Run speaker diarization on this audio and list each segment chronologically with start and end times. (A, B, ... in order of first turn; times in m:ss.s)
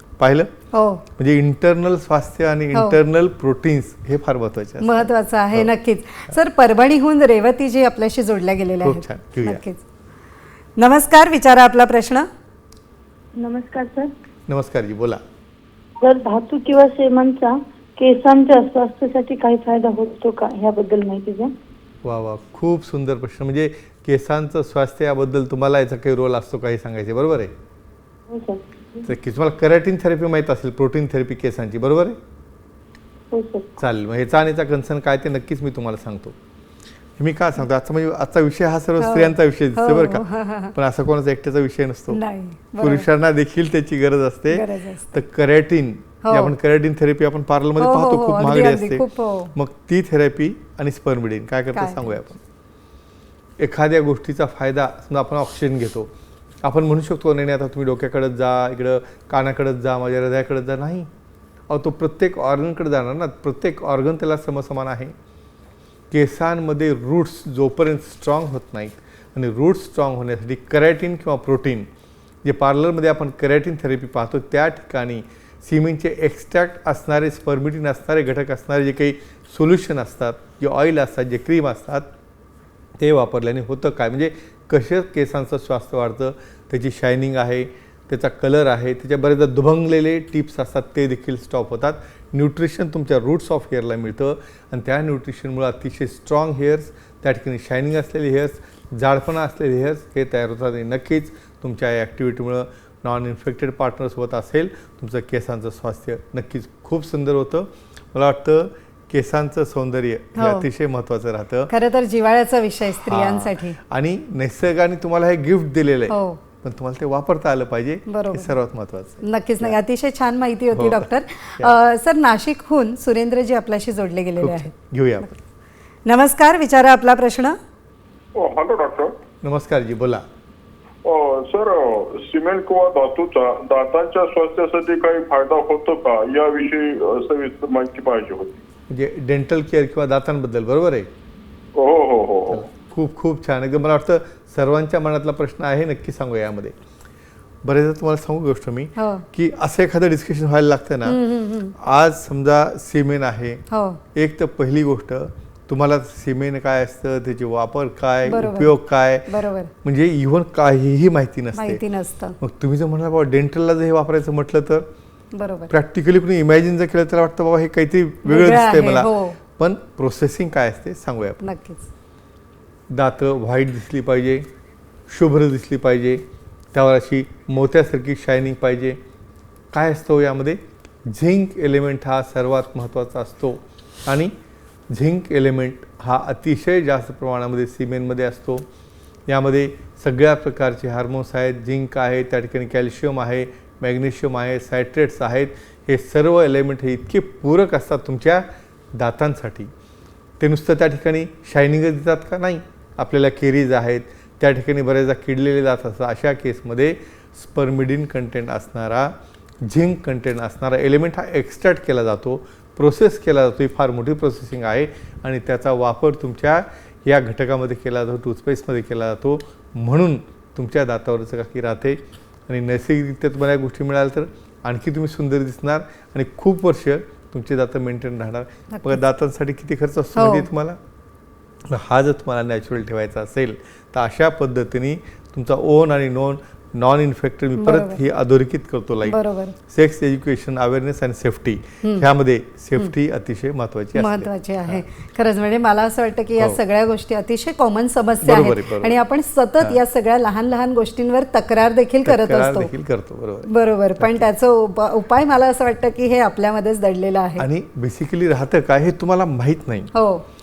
0:00.2-0:00.5 A
0:00.7-0:01.0 B
0:01.2-0:05.7 A
0:02.7-0:03.0 B
0:04.8-0:09.8 B
0:08.8-0:09.6 A
0:10.8-0:12.3 B
0:13.4-0:14.1 C
0:14.5-0:15.2 A
0:16.0-0:21.5 C
0:22.0-0:27.5 A
0:28.3-0:29.1 C
0:29.0-0:32.2 A
0:33.3-0:33.8 C
0:33.8-0:36.4 A
0:37.2-0:42.2 A
0:39.0-0:40.7 B
0:42.1-0:43.1 B
0:42.8-0:52.4 A
0:44.5-0:45.2 B
0:46.2-0:46.5 B
0:47.8-0:49.5 B
0:51.7-0:52.2 B
0:53.6-0:56.1 A
0:56.6-1:01.1 A
1:01.7-1:05.1 A
1:06.1-1:11.9 A
1:12.4-1:22.1 A
1:23.0-1:51.7 A
1:50.4-1:50.6 B
1:51.7-1:53.8 B
1:53.0-1:59.8 A
1:56.1-1:56.4 B
1:58.1-1:58.5 B
1:59.2-2:05.4 B
2:00.7-2:01.7 A
2:04.4-2:05.3 A
2:06.0-2:07.6 B
2:08.3-2:09.2 D
2:09.4-2:10.2 A
2:11.0-2:18.6 D
2:18.9-2:21.1 A
2:21.8-2:22.6 D
2:22.5-2:26.7 A
2:27.6-2:31.2 A
2:29.0-2:29.2 B
2:31.0-2:31.7 B
2:31.7-2:39.3 A
2:33.7-2:34.0 B
2:38.3-2:38.7 B
2:39.3-2:39.7 B
2:39.8-2:41.8 A
2:41.6-2:42.4 B
2:42.4-2:44.9 A
2:45.3-2:45.7 B
2:45.7-2:51.4 A
2:48.2-2:49.4 B
2:51.4-2:51.9 B
2:52.9-2:54.5 A
2:55.1-2:59.0 A
2:59.7-3:04.3 A
3:04.9-3:08.6 A
3:09.3-3:19.7 A
3:20.4-3:50.8 A
3:48.7-3:49.0 B
3:50.2-3:50.5 B
3:51.6-4:04.8 A
3:57.6-3:58.0 B
3:59.0-3:59.6 B
4:04.0-4:12.7 B
4:08.2-4:09.0 A
4:12.0-4:14.2 A
4:13.5-4:17.4 B
4:17.4-4:19.9 A
4:19.9-4:20.2 B